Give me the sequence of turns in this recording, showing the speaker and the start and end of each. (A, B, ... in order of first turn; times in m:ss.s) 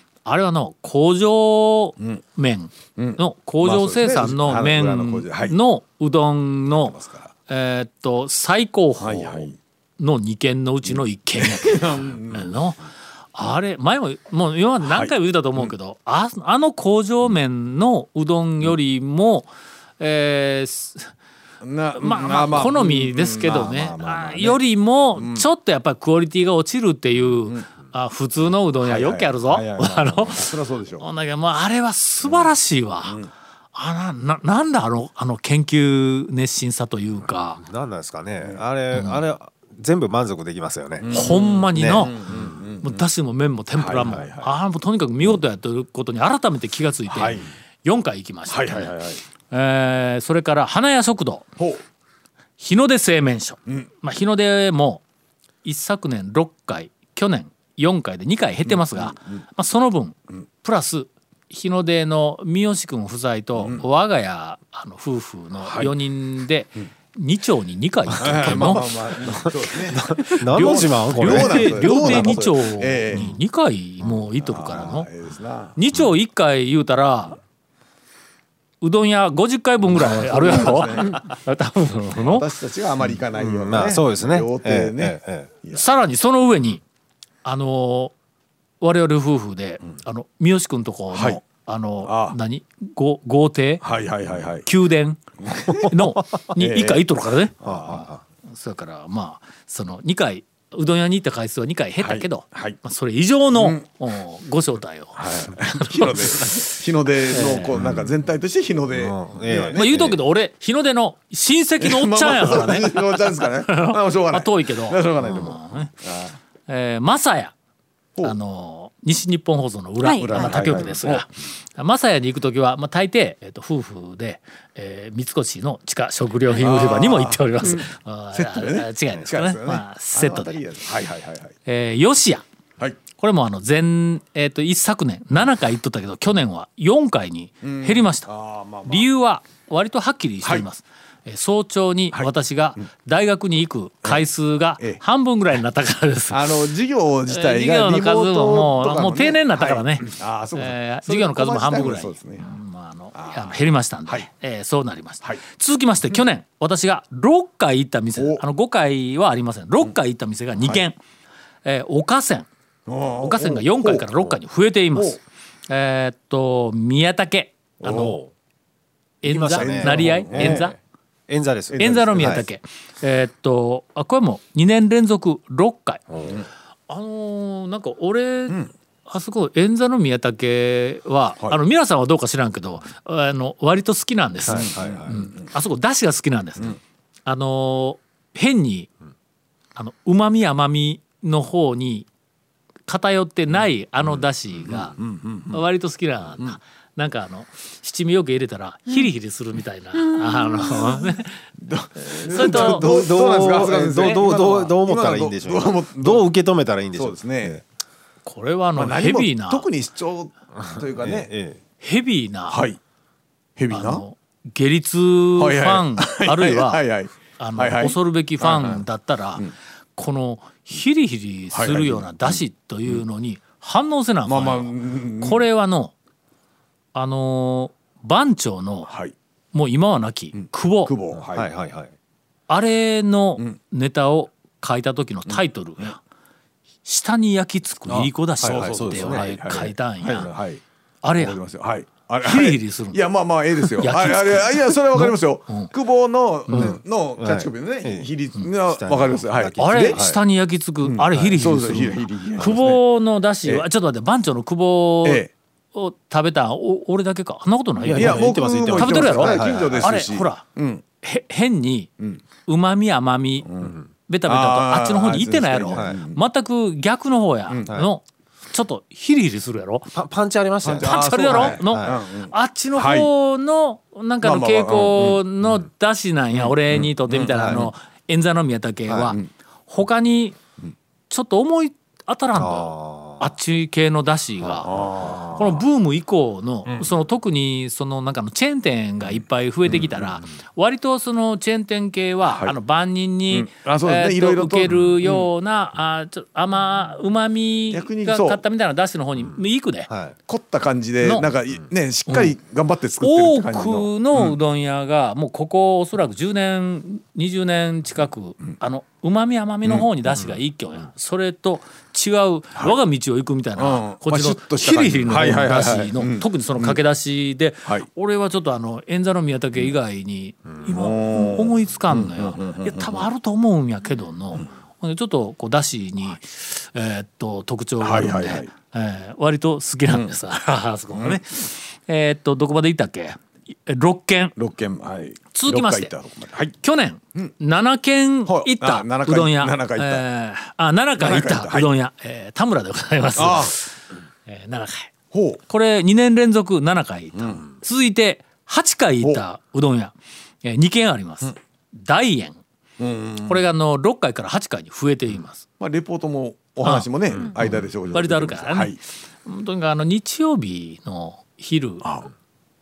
0:00.2-0:07.0 A
0:03.0-0:05.6 B
0:06.8-0:07.3 B
0:07.5-0:12.8 A
0:09.0-0:09.6 B
0:10.9-0:12.6 B
0:13.3-0:21.1 A
0:14.8-0:15.7 B
0:21.6-0:24.6 B
0:22.0-0:33.2 A
0:25.1-0:25.5 B
0:28.7-0:31.0 B
0:32.2-0:33.3 B
0:33.7-0:37.6 A
0:37.6-0:41.1 C
0:38.9-0:39.2 A
0:41.0-0:43.0 B
0:41.1-0:49.0 A
0:41.7-0:42.1 C
0:43.8-0:44.5 B
0:47.1-0:47.5 B
0:48.5-0:49.2 B
0:49.5-0:51.5 A
0:52.6-0:55.0 A
0:55.6-1:08.8 A
0:58.7-0:59.4 B
1:03.6-1:03.8 B
1:05.6-1:05.9 B
1:08.1-1:13.3 B
1:09.4-1:12.5 C
1:10.6-1:15.1 A
1:14.4-1:15.8 B
1:15.8-1:17.4 A
1:18.8-1:22.5 A
1:19.9-1:21.2 B
1:22.2-1:25.8 B
1:23.3-1:25.5 C
1:25.7-1:26.8 A
1:27.4-1:28.1 A
1:28.8-1:33.8 A
1:31.1-1:31.4 B
1:32.0-1:32.4 B
1:33.8-1:34.7 B
1:34.6-1:46.6 A
1:35.4-1:36.0 B
1:36.6-1:37.1 B
1:37.6-1:38.1 B
1:37.6-1:38.2 C
1:42.0-1:42.8 B
1:43.6-1:43.8 B
1:45.2-1:50.2 B
1:47.3-1:47.8 A
1:47.8-1:48.0 C
1:49.0-1:50.2 C
1:49.7-1:55.9 A
1:51.8-1:56.4 B
1:56.7-1:57.5 A
1:58.2-2:10.6 A
2:00.1-2:01.2 B
2:06.6-2:11.5 B
2:11.7-2:12.4 A
2:13.1-2:18.3 A
2:17.6-2:19.1 B
2:18.8-2:26.7 A
2:26.3-2:32.5 B
2:27.3-2:41.0 A
2:33.2-2:33.6 B
2:38.2-2:38.4 B
2:41.6-2:42.5 A
2:42.9-2:44.1 B
2:43.2-2:48.2 A
2:47.8-2:48.2 B
2:47.9-2:48.3 C
2:49.2-2:50.8 A
2:49.2-2:50.8 C
2:49.6-2:50.7 B
2:51.3-2:52.5 C
2:51.7-2:52.4 B
2:51.8-2:56.4 A
2:56.9-3:08.9 A
3:04.5-3:05.2 C
3:04.5-3:05.5 B
3:09.8-3:12.1 A
3:12.9-3:15.0 A
3:14.7-3:15.6 B
3:15.5-3:21.4 A
3:21.6-3:26.3 B
3:22.1-3:22.9 A
3:22.3-3:27.6 C
3:26.9-3:27.6 B
3:28.2-3:29.7 A
3:28.8-3:31.3 B
3:31.0-3:31.6 C
3:31.8-3:32.6 A
3:32.5-3:32.8 B
3:33.6-3:34.0 B
3:33.7-3:36.8 A
3:35.4-3:38.8 B
3:37.4-3:45.9 A
3:41.5-3:43.0 B
3:44.3-3:45.4 B
3:46.9-3:48.9 A
3:48.9-3:49.1 B
3:49.5-3:51.0 A
3:50.3-3:51.5 B
3:51.1-3:51.9 C
3:52.5-3:56.0 A
3:56.8-4:00.3 A
3:57.9-3:59.4 C
3:58.4-4:00.6 B
4:01.0-4:01.4 A
4:01.2-4:10.0 B
4:02.2-4:03.0 A
4:03.8-4:05.7 A
4:06.5-4:06.8 A
4:06.5-4:10.2 C
4:09.6-4:20.4 A
4:10.8-4:12.8 B
4:11.1-4:11.4 C
4:15.0-4:15.3 B
4:17.8-4:20.0 C
4:17.9-4:20.8 B
4:21.0-4:21.9 A
4:22.5-4:23.5 A
4:23.4-4:26.2 B
4:24.1-4:29.9 A
4:29.9-4:31.9 C
4:30.6-4:33.1 B
4:30.8-4:40.4 A
4:34.2-4:35.6 B
4:36.4-4:37.7 B
4:37.3-4:37.7 C
4:38.9-4:39.2 C
4:41.1-4:59.9 A
4:42.4-4:43.3 C
4:44.6-4:45.6 B
4:52.2-4:52.6 B
4:53.3-4:55.3 B
4:57.7-4:58.4 B
4:59.9-5:00.2 C
5:00.3-5:04.4 B
5:01.0-5:01.3 A
5:02.1-5:02.4 A
5:03.0-5:34.4 A
5:13.6-5:16.8 B
5:20.7-5:23.1 B
5:27.8-5:28.5 B
5:30.9-5:31.2 B
5:34.4-5:36.6 B
5:35.3-5:35.9 A
5:36.6-5:44.9 A
5:38.3-5:40.0 B
5:41.0-5:41.7 B
5:43.2-5:43.5 B
5:45.1-5:45.4 B
5:45.5-5:52.4 A
5:47.2-5:47.4 B
5:52.8-5:53.4 B
5:53.3-5:55.5 A
5:55.6-5:58.8 B
5:56.6-6:01.9 A
6:01.8-6:02.1 B